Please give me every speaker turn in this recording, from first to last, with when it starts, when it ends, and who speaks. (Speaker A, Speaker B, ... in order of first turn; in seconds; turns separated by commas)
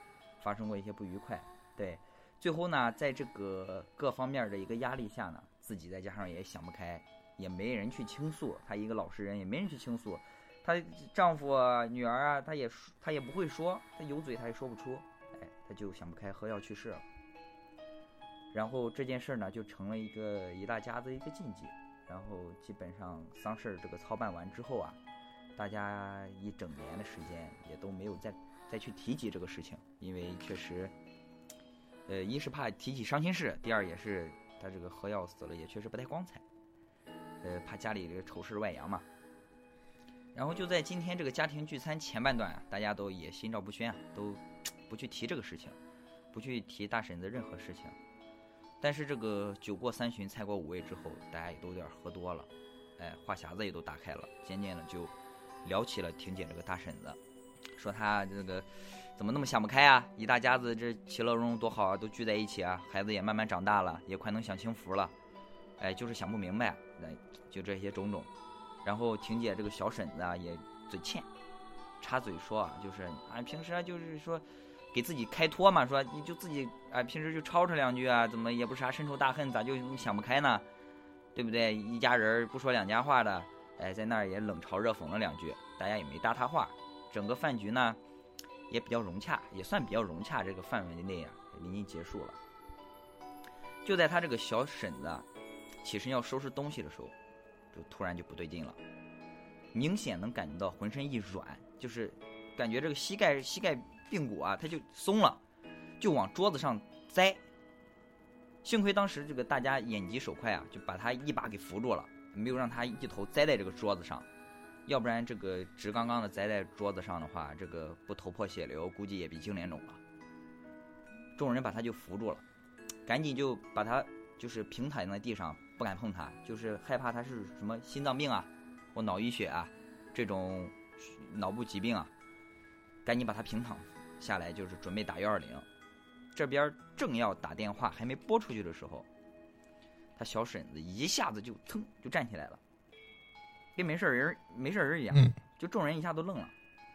Speaker A: 0.4-17.1, Speaker A: 18.5-25.0, Speaker A: 25.6-30.9, Speaker A: 32.1-36.4, Speaker A: 37.4-39.0, Speaker A: 40.3-45.8, Speaker A: 46.3-48.0, Speaker A: 48.8-57.2, Speaker A: 57.8-65.1, Speaker A: 65.8-68.3, Speaker A: 68.8-71.3, Speaker A: 72.0-80.7, Speaker A: 81.3-88.0, Speaker A: 88.7-92.4, Speaker A: 93.8-95.2, Speaker A: 95.8-97.1, Speaker A: 97.7-98.8, Speaker A: 99.7-105.4, Speaker A: 106.0-107.4, Speaker A: 108.6-114.3, Speaker A: 114.8-120.0, Speaker A: 121.3-122.4, Speaker A: 123.0-132.1, Speaker A: 133.0-135.7, Speaker A: 136.3-139.1, Speaker A: 140.2-142.6, Speaker A: 143.8-146.5